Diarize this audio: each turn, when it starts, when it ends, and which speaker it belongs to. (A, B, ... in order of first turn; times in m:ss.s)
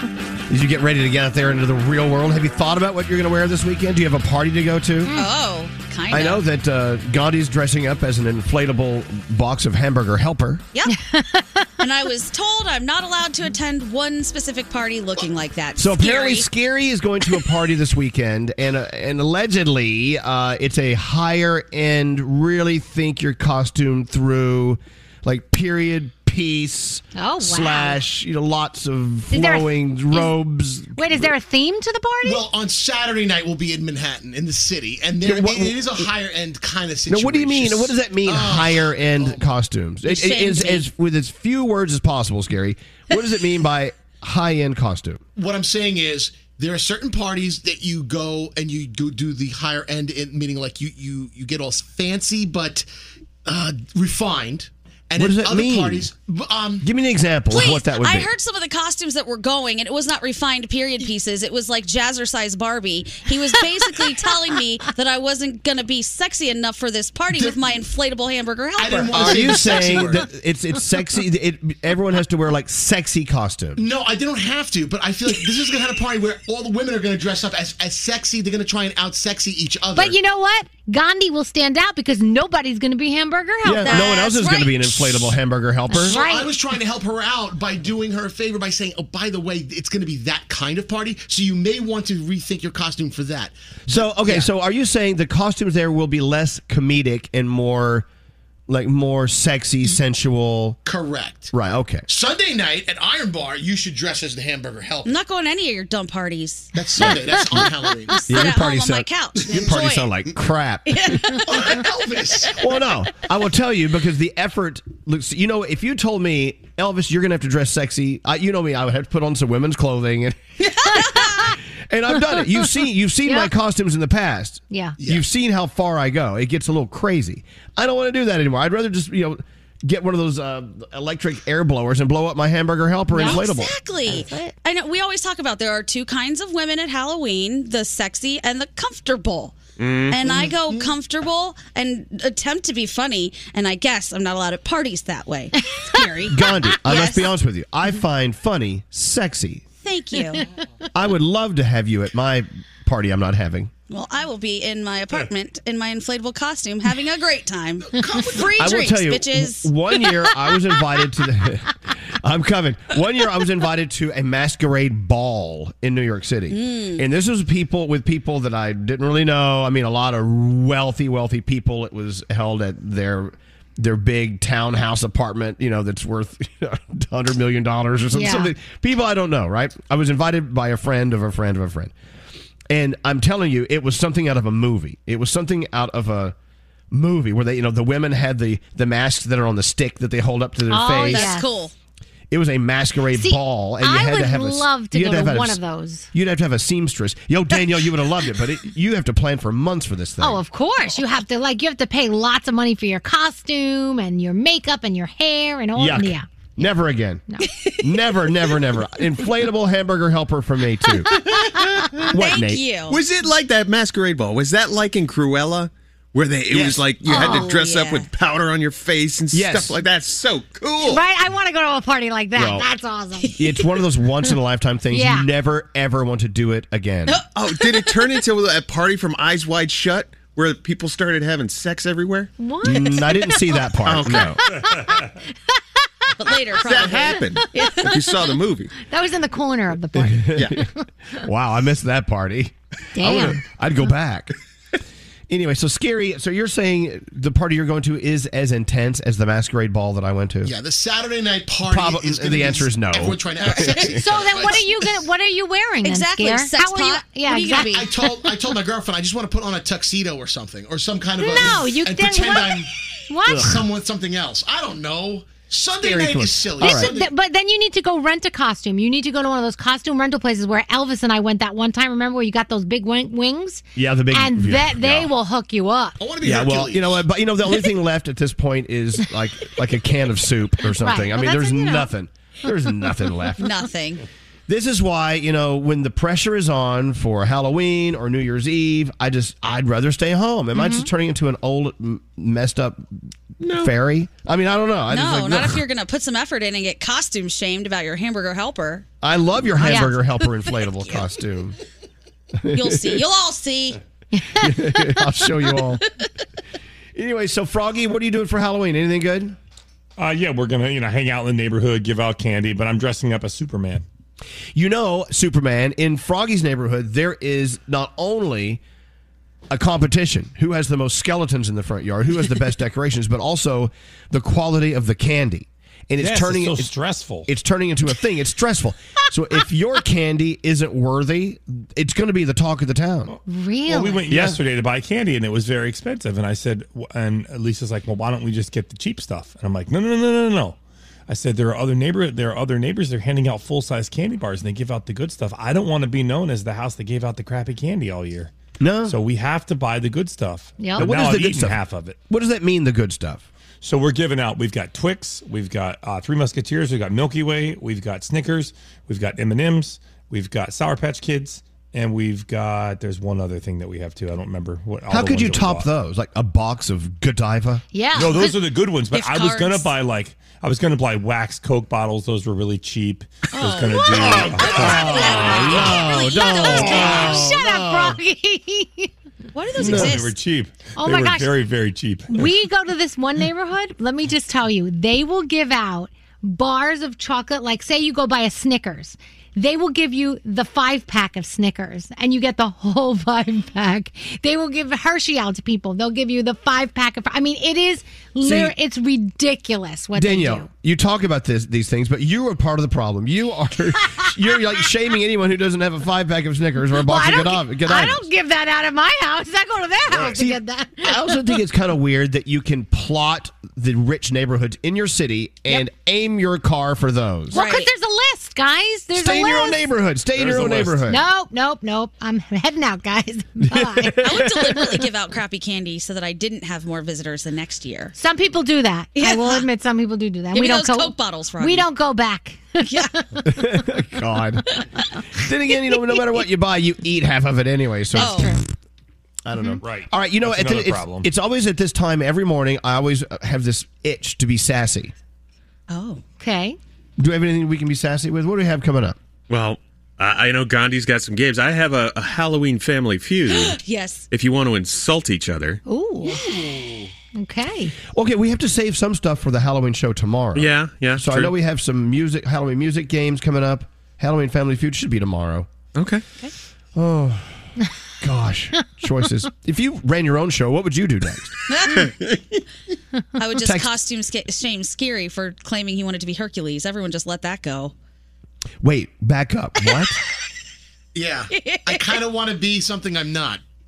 0:00.5-0:05.1 A
0:05.1-0:06.4 B
0:06.1-0:10.6 A
0:10.9-0:11.6 C
0:11.8-0:16.4 B
0:15.8-0:31.3 A
0:27.2-0:28.0 C
0:29.3-0:30.3 C
0:31.0-0:32.4 C
0:32.2-0:39.4 D
0:35.2-0:36.1 A
0:37.1-0:45.2 A
0:40.0-0:40.8 B
0:45.4-0:52.8 D
0:53.4-0:56.8 D
0:55.2-0:56.1 A
0:56.8-0:58.3 A
0:57.5-1:09.8 B
1:08.8-1:10.2 D
1:09.1-1:13.8 A
1:13.8-1:20.2 D
1:19.9-1:24.2 C
1:23.6-1:26.2 A
1:23.8-1:25.3 B
1:25.9-1:26.5 C
1:26.0-1:34.5 D
1:33.9-1:38.0 A
1:38.7-1:40.8 A
1:40.8-1:41.5 D
1:41.5-1:42.0 A
1:42.1-1:45.1 D
1:45.0-1:46.7 B
1:46.7-1:48.3 D
1:47.2-1:47.6 C
1:48.2-1:50.2 B
1:48.3-1:51.3 A
1:50.9-1:51.4 B
1:51.5-1:52.6 D
1:52.6-2:00.4 A
2:00.9-2:01.3 B
2:01.9-2:13.7 A
2:04.7-2:05.0 C
2:05.0-2:05.2 D
2:13.1-2:13.4 C
2:13.2-2:19.6 B
2:14.1-2:14.5 C
2:19.8-2:20.4 E
2:20.1-2:27.3 B
2:26.3-2:29.6 A
2:29.8-2:30.4 B
2:30.9-2:33.7 A
2:33.9-2:39.7 B
2:37.9-2:38.5 D
2:38.6-3:01.9 A
2:46.5-2:47.0 B
2:58.1-2:58.5 C
3:02.7-3:06.3 A
3:06.9-3:11.3 A
3:10.7-3:11.4 C
3:11.1-3:11.7 B
3:12.3-3:15.6 A
3:13.2-3:16.1 C
3:16.1-3:20.4 A
3:20.2-3:26.2 C
3:25.8-3:27.2 A
3:27.8-3:31.2 A
3:32.0-3:33.0 B
3:32.1-3:32.6 A
3:32.9-3:41.0 E
3:36.5-3:36.8 A
3:37.0-3:37.5 C
3:37.1-3:38.1 B
3:39.3-3:39.8 A
3:40.8-3:43.3 C
3:42.4-3:42.6 A
3:43.2-3:43.4 B
3:43.4-3:47.2 A
3:44.9-3:45.3 C
3:47.1-3:48.0 B
3:47.3-3:52.3 E
3:52.4-3:55.1 C
3:52.6-3:54.4 A
3:53.8-3:54.3 E
3:56.2-3:58.0 B
3:56.5-3:58.7 E
3:58.8-4:00.6 C
4:00.0-4:00.6 A
4:01.2-4:04.3 A
4:03.0-4:03.4 C
4:05.3-4:10.5 A
4:10.4-4:14.8 D
4:11.7-4:14.0 A
4:13.9-4:18.3 C
4:15.8-4:17.9 B
4:17.5-4:22.7 D
4:21.2-4:23.5 C
4:23.3-4:23.6 A
4:23.3-4:27.1 D
4:25.8-4:26.9 A
4:26.6-4:36.0 C
4:33.8-4:35.1 A
4:36.0-4:37.0 D
4:36.2-4:43.5 A
4:40.8-4:41.9 C
4:43.4-4:44.0 B
4:44.5-4:52.9 A
4:50.5-4:50.9 C
4:53.4-4:53.7 E
4:53.5-4:55.6 A
4:54.9-4:58.8 B
4:59.0-5:01.5 A
4:59.6-5:01.1 B
4:59.6-4:59.9 C
5:02.4-5:03.0 A
5:02.5-5:03.8 B
5:04.1-5:04.8 C
5:04.4-5:05.8 A
5:06.9-5:09.4 A
5:10.0-5:13.8 F
5:14.5-5:18.6 A
5:19.5-5:26.7 A
5:26.0-5:27.3 F
5:27.2-5:33.1 A
5:33.3-5:34.1 C
5:33.7-5:48.3 F
5:34.1-5:34.4 A
5:48.6-5:49.0 A
5:48.8-5:52.0 F
5:50.6-5:50.9 C
5:50.8-5:53.2 A
5:53.6-6:05.7 F
6:04.9-6:07.6 A
6:07.7-6:08.4 C
6:07.9-6:15.2 F
6:08.9-6:09.7 B
6:13.3-6:17.3 B
6:13.9-6:18.0 A
6:14.8-6:18.9 C
6:19.3-6:20.1 B
6:19.6-6:20.0 A
6:19.6-6:22.3 F
6:20.8-6:21.4 C
6:22.1-6:40.5 C
6:38.2-6:38.5 A
6:39.9-6:48.1 A
6:46.8-6:51.3 C
6:49.9-6:57.4 A
6:57.3-6:59.6 C
6:57.3-6:57.7 B
6:58.9-7:01.0 A
7:00.2-7:00.7 F
7:00.9-7:04.1 C
7:03.5-7:04.4 A
7:04.0-7:07.9 B
7:08.0-7:13.0 C
7:09.0-7:09.4 B
7:10.3-7:11.7 B
7:12.6-7:12.9 B
7:13.2-7:14.4 A
7:15.2-7:18.4 A
7:17.9-7:18.3 B
7:17.9-7:18.4 C
7:19.2-7:24.9 A
7:19.6-7:21.1 F
7:25.7-7:26.0 B
7:26.2-7:26.6 C
7:27.0-7:29.0 A
7:29.3-7:33.6 E
7:33.3-7:34.0 B
7:34.1-7:35.6 E
7:35.6-7:36.2 C
7:36.1-7:36.7 B
7:37.2-7:37.7 C
7:37.9-7:45.5 A
7:40.3-7:41.3 E
7:45.7-7:46.0 E
7:46.7-7:47.4 A
7:48.0-7:51.4 A
7:51.5-7:52.0 B
7:53.2-7:57.7 B
7:53.4-7:53.7 A
7:58.6-8:00.0 A
8:00.9-8:03.4 D
8:01.3-8:02.0 B